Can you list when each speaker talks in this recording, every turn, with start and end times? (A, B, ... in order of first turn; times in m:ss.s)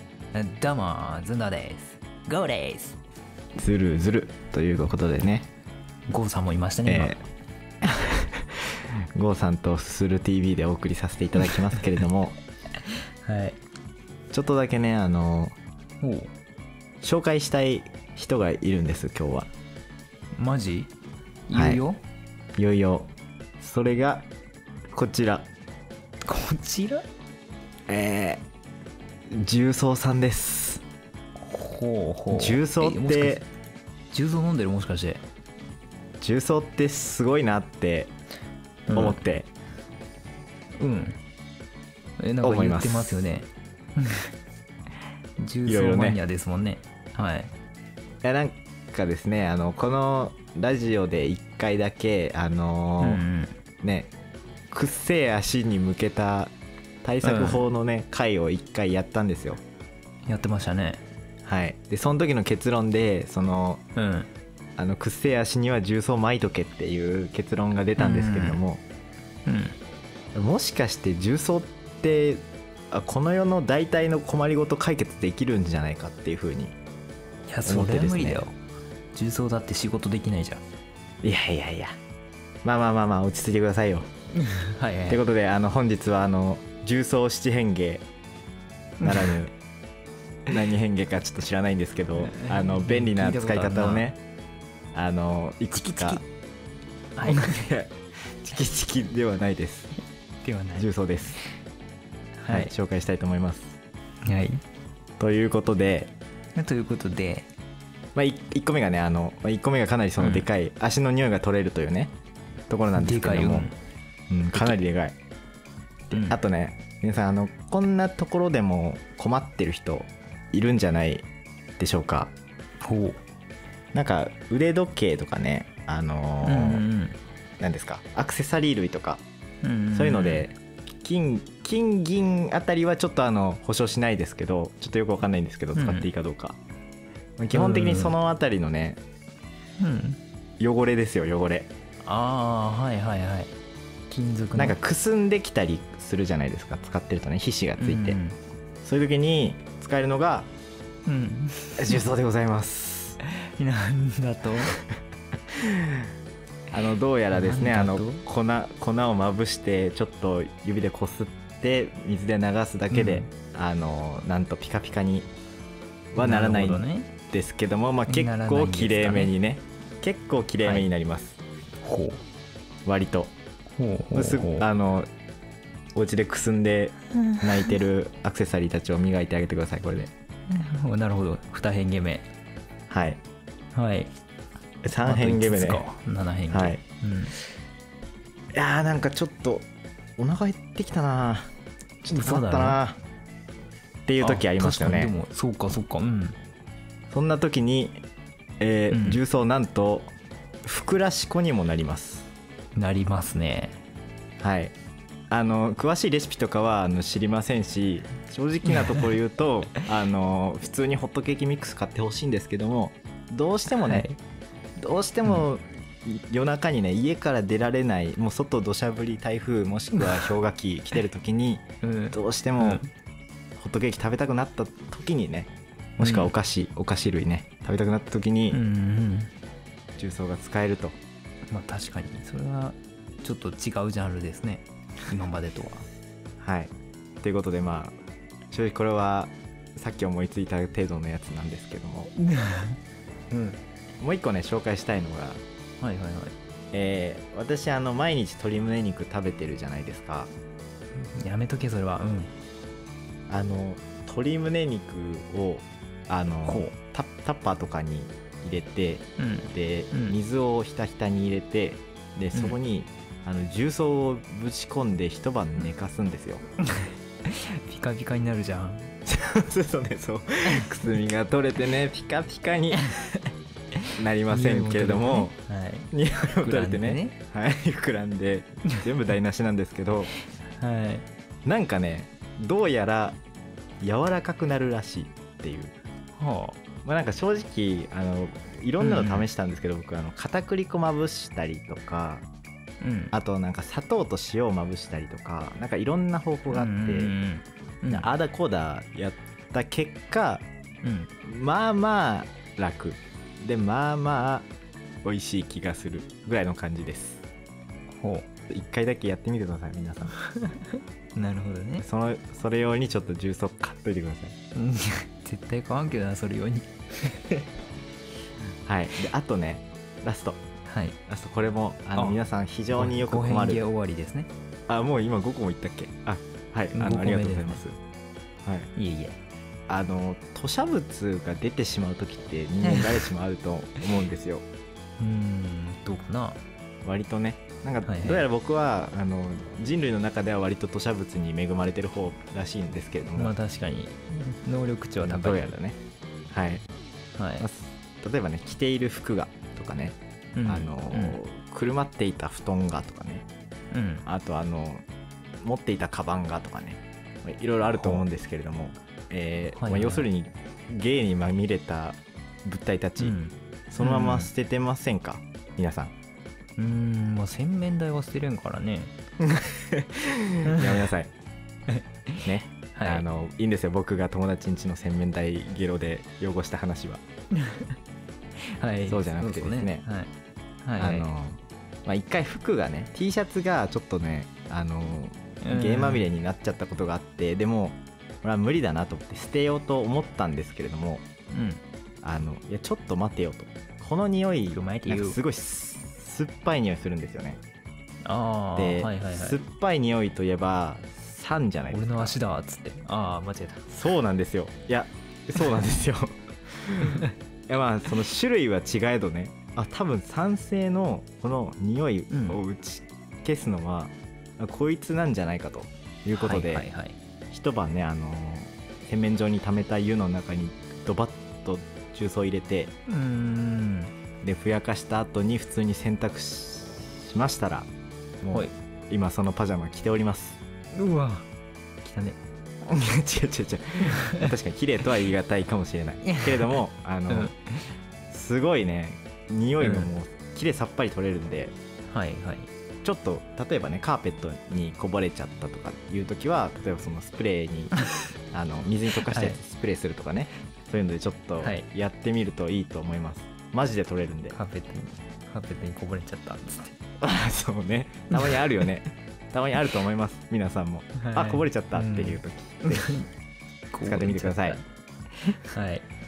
0:00.3-0:03.0 A
0:03.6-0:05.5 B
0:06.1-0:07.1 A
0:06.9-0:07.2 B
0:07.8-0:08.6 B
0:09.2-0:12.4 B
0:13.2-0:13.6 A
0:14.3-0:15.6 B
0:16.0-0:16.3 A
0:17.0-0:19.5 B
0:20.4-0:20.9 A
0:21.5-0:22.0 A
0:21.5-0:21.8 B
0:22.6-0:24.3 B
0:24.9-0:25.5 B
0:26.3-0:27.1 A
0:27.9-0:28.4 B
0:29.3-0:30.8 B
0:31.4-0:33.4 A
0:32.3-0:33.4 B
0:34.1-0:35.2 A
0:36.2-0:38.1 B
0:38.9-0:39.2 A
0:38.9-0:39.5 B
0:40.8-0:41.2 A
0:42.2-0:44.3 A
0:42.4-0:43.3 B
0:45.4-0:47.5 A
0:45.7-0:46.2 B
0:48.2-0:53.2 B
0:53.0-0:53.6 A
0:53.8-0:54.1 B
0:54.7-0:56.5 B
0:57.0-0:59.6 B
0:57.2-0:57.6 A
1:00.3-1:01.0 A
1:01.4-1:03.8 B
1:04.0-1:04.3 A
1:04.8-1:08.8 B
1:08.0-1:08.6 A
1:09.5-1:09.8 A
1:10.4-1:16.8 B
1:17.5-1:18.6 A
1:17.6-1:18.5 B
1:19.2-1:20.6 A
1:21.2-1:21.9 B
1:22.6-1:24.1 B
1:24.4-1:25.2 A
1:25.1-1:28.0 B
1:29.0-1:29.4 A
1:29.0-1:29.5 B
1:30.5-1:34.2 B
1:32.2-1:34.0 A
1:35.0-1:36.2 B
1:35.7-1:36.2 A
1:37.2-1:37.6 A
1:37.2-1:39.9 B
1:40.4-1:41.4 A
1:40.8-1:41.4 B
1:42.4-1:42.7 A
1:42.5-1:43.8 B
1:44.2-1:44.6 A
1:45.2-1:46.1 B
1:46.6-1:47.5 A
1:48.2-1:52.1 B
1:50.2-1:50.5 A
1:52.7-1:53.7 B
1:53.0-1:53.8 A
1:54.3-1:55.2 B
1:56.1-1:56.4 A
1:56.1-2:01.3 B
2:01.8-2:02.3 B
2:02.8-2:03.2 A
2:03.9-2:06.8 B
2:06.4-2:07.2 A
2:07.6-2:09.2 B
2:09.6-2:10.5 A
2:09.9-2:16.6 B
2:15.8-2:16.1 A
2:17.4-2:19.0 B
2:17.5-2:18.2 A
2:19.8-2:20.2 A
2:20.6-2:21.7 B
2:22.0-2:23.5 A
2:24.1-2:24.8 A
2:24.6-2:28.2 B
2:27.8-2:28.4 A
2:28.8-2:30.5 B
2:31.0-2:32.0 A
2:31.8-2:33.2 B
2:33.2-2:34.7 A
2:36.7-2:45.3 B
2:37.3-2:38.2 A
2:42.9-2:43.3 A
2:46.1-2:51.4 B
2:46.2-2:47.1 A
2:48.1-2:49.3 A
2:51.8-2:52.2 A
2:52.8-2:53.3 B
2:53.7-2:54.7 A
2:54.1-2:55.1 B
2:56.0-3:00.1 B
3:00.5-3:02.3 A
3:02.9-3:03.2 B
3:03.7-3:04.1 A
3:04.8-3:05.8 B
3:04.9-3:07.3 A
3:06.5-3:06.8 B
3:08.5-3:09.7 B
3:10.2-3:11.5 B
3:12.0-3:12.8 A
3:12.0-3:13.0 B
3:14.1-3:15.1 B
3:14.2-3:16.4 A
3:17.1-3:18.0 B
3:18.6-3:20.1 B
3:18.9-3:19.2 A
3:20.6-3:22.3 B
3:22.8-3:23.8 A
3:24.4-3:24.7 B
3:25.3-3:34.1 B
3:33.8-3:34.2 A
3:34.8-3:42.8 B
3:39.9-3:40.3 A
3:41.8-3:42.9 A
3:43.6-3:48.6 B
3:46.0-3:46.3 A
3:48.5-3:49.3 A
3:50.0-3:51.0 B
3:51.5-3:55.9 A
3:56.4-3:58.0 B
3:58.5-4:02.1 B
4:02.2-4:02.8 A
4:03.3-4:03.6 A
4:04.0-4:05.4 B
4:05.8-4:06.4 A
4:06.7-4:10.3 B
4:10.9-4:12.3 A
4:13.3-4:26.4 B
4:16.4-4:16.7 A
4:19.2-4:20.2 A
4:22.3-4:22.6 A
4:26.6-4:28.9 A
4:29.1-4:32.8 B
4:30.5-4:31.0 A
4:32.8-4:33.2 A
4:34.0-4:35.4 B
4:34.3-4:35.9 A
4:35.9-4:40.1 B
4:36.4-4:37.2 A
4:40.6-4:41.0 A
4:41.5-4:43.2 B
4:43.8-4:45.7 B
4:46.2-4:46.6 A
4:46.8-4:52.2 B
4:48.8-4:49.3 A
4:52.8-4:53.1 A
4:53.1-4:57.1 B
4:56.5-4:58.1 A
4:57.9-5:00.5 B
5:00.8-5:01.1 A
5:01.2-5:04.5 B
5:05.0-5:07.2 B
5:07.9-5:08.3 A
5:08.5-5:10.2 B
5:10.2-5:11.9 A
5:11.8-5:14.4 B
5:14.6-5:17.4 A
5:18.7-5:20.4 B
5:20.6-5:21.0 A
5:21.1-5:23.6 B
5:22.7-5:24.3 A
5:24.7-5:27.8 B
5:26.7-5:27.6 A
5:28.4-5:28.7 B
5:28.8-5:29.2 A
5:29.7-5:34.5 B
5:32.6-5:33.1 A
5:35.0-5:36.4 A
5:36.8-5:43.4 B
5:37.8-5:38.3 A
5:43.2-5:45.5 A
5:45.0-5:45.8 B
5:46.3-5:46.6 B
5:47.2-5:47.5 A
5:47.4-5:53.3 B
5:50.4-5:51.2 A
5:53.7-5:54.1 A
5:54.0-5:54.8 B
5:55.4-6:03.2 B
5:57.7-5:58.1 A
5:59.6-6:00.0 A
6:03.0-6:04.3 A
6:03.7-6:05.9 B
6:06.6-6:08.9 A
6:09.2-6:11.1 B
6:10.4-6:10.9 A
6:11.7-6:13.0 A
6:12.2-6:17.0 B
6:17.3-6:17.8 A
6:18.6-6:20.1 A
6:18.9-6:19.8 B
6:20.6-6:21.1 A
6:20.8-6:31.0 B
6:25.4-6:26.0 A
6:31.3-6:31.6 A
6:32.0-6:37.4 B
6:34.5-6:35.2 A
6:38.0-6:39.4 A
6:38.6-6:42.2 B
6:41.7-6:43.7 A
6:43.7-6:56.7 B
6:52.1-6:52.4 A
6:56.1-6:57.0 A
6:57.3-7:02.7 B
7:02.9-7:03.9 A
7:04.2-7:07.7 B
7:08.2-7:10.4 B
7:10.8-7:11.3 A
7:11.8-7:12.2 A
7:12.7-7:17.3 B
7:16.1-7:17.4 A
7:18.1-7:21.5 B
7:19.6-7:19.9 A
7:21.9-7:22.5 A
7:22.8-7:27.8 B
7:28.3-7:34.4 B
7:29.1-7:29.4 A
7:31.4-7:31.7 A
7:34.3-7:36.8 A
7:37.0-7:43.0 B
7:41.0-7:43.1 A
7:43.7-7:44.6 A
7:43.8-7:44.6 B
7:45.3-7:45.9 A